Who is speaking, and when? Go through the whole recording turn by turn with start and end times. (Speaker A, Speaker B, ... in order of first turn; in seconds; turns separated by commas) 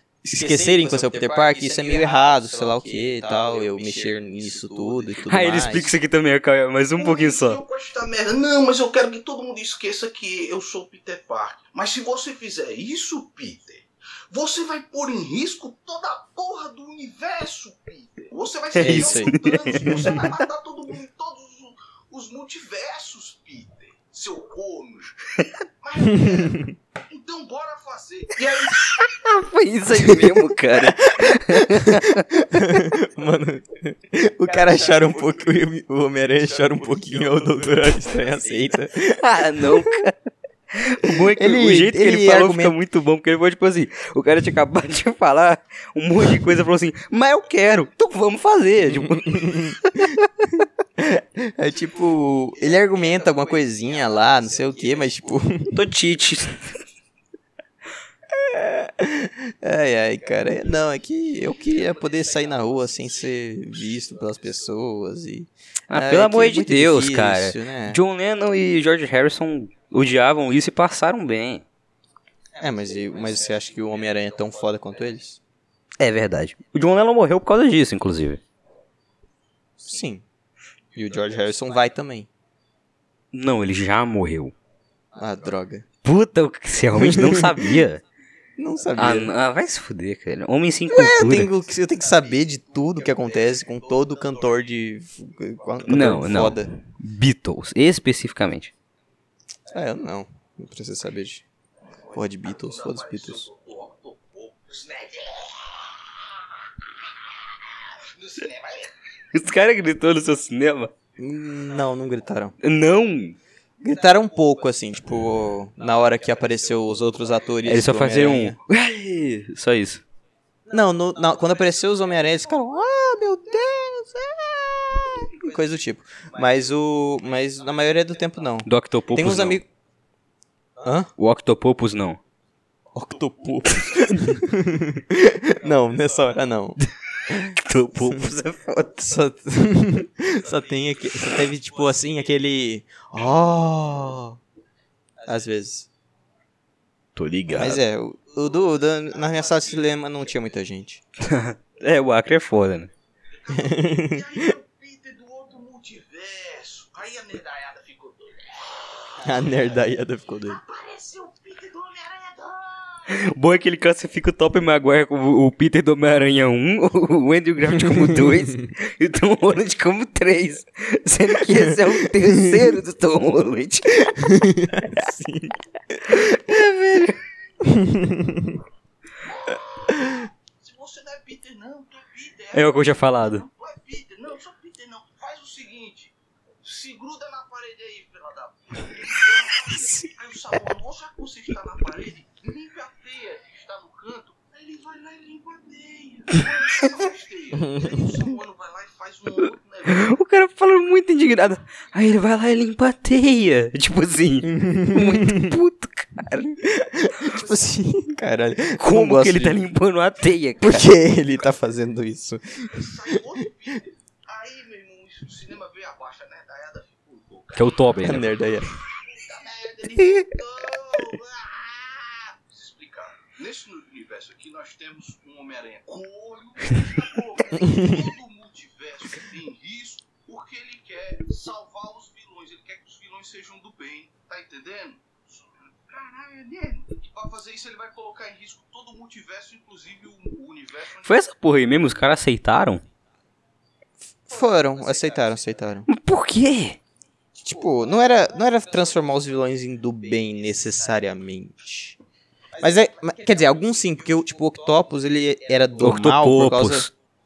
Speaker A: 0.2-5.9, Speaker B: 5.2-7.6, Speaker C: 7.0-29.1, Speaker B: 18.7-20.4, Speaker A: 18.8-19.4, Speaker A: 26.3-26.6, Speaker B: 28.7-32.8, Speaker A: 31.1-39.9, Speaker B: 39.0-50.2, Speaker A: 41.0-42.8, Speaker A: 49.2-50.0, Speaker A: 50.6-55.8, Speaker B: 55.7-56.8, Speaker A: 58.4-68.0, Speaker B: 65.9-71.6, Speaker A: 72.6-75.4, Speaker B: 76.0-78.4, Speaker A: 79.8-80.2, Speaker A: 80.9-82.3, Speaker B: 83.3-84.5, Speaker A: 85.1-85.8, Speaker B: 86.0-88.0, Speaker A: 87.0-87.6, Speaker A: 88.6-89.3, Speaker B: 88.9-91.5, Speaker A: 90.9-96.7, Speaker B: 95.8-98.7, Speaker A: 99.7-101.4, Speaker A: 102.1-103.5, Speaker C: 102.1-106.0, Speaker C: 108.0-109.0, Speaker B: 109.3-110.9, Speaker A: 111.2-112.5, Speaker B: 112.6-113.4, Speaker A: 113.8-118.6, Speaker B: 117.6-120.0, Speaker A: 120.7-129.7, Speaker B: 128.6-129.6, Speaker A: 130.8-131.1, Speaker B: 131.2-132.2, Speaker A: 132.9-138.2, Speaker B: 137.4-139.0, Speaker A: 139.0-144.4, Speaker A: 145.2-145.9, Speaker B: 147.2-147.8, Speaker A: 147.5-151.0, Speaker B: 151.2-152.9, Speaker C: 153.3-159.6, Speaker A: 153.5-154.5, Speaker A: 159.2-160.6, Speaker C: 160.4-163.2, Speaker B: 163.1-174.2, Speaker A: 174.1-176.3, Speaker B: 176.1-177.2, Speaker A: 177.6-178.6, Speaker C: 179.5-200.1, Speaker B: 182.5-183.4, Speaker A: 197.6-198.0, Speaker B: 199.9-206.6, Speaker A: 204.6-205.5, Speaker A: 206.6-209.7, Speaker B: 208.7-210.9, Speaker A: 210.6-213.2, Speaker C: 212.7-218.0, Speaker B: 217.5-218.3, Speaker A: 218.0-218.7, Speaker C: 218.8-241.1, Speaker B: 241.0-242.8, Speaker A: 244.2-245.9, Speaker B: 245.9-246.8, Speaker A: 247.4-252.0, Speaker A: 252.6-256.9, Speaker B: 255.8-256.9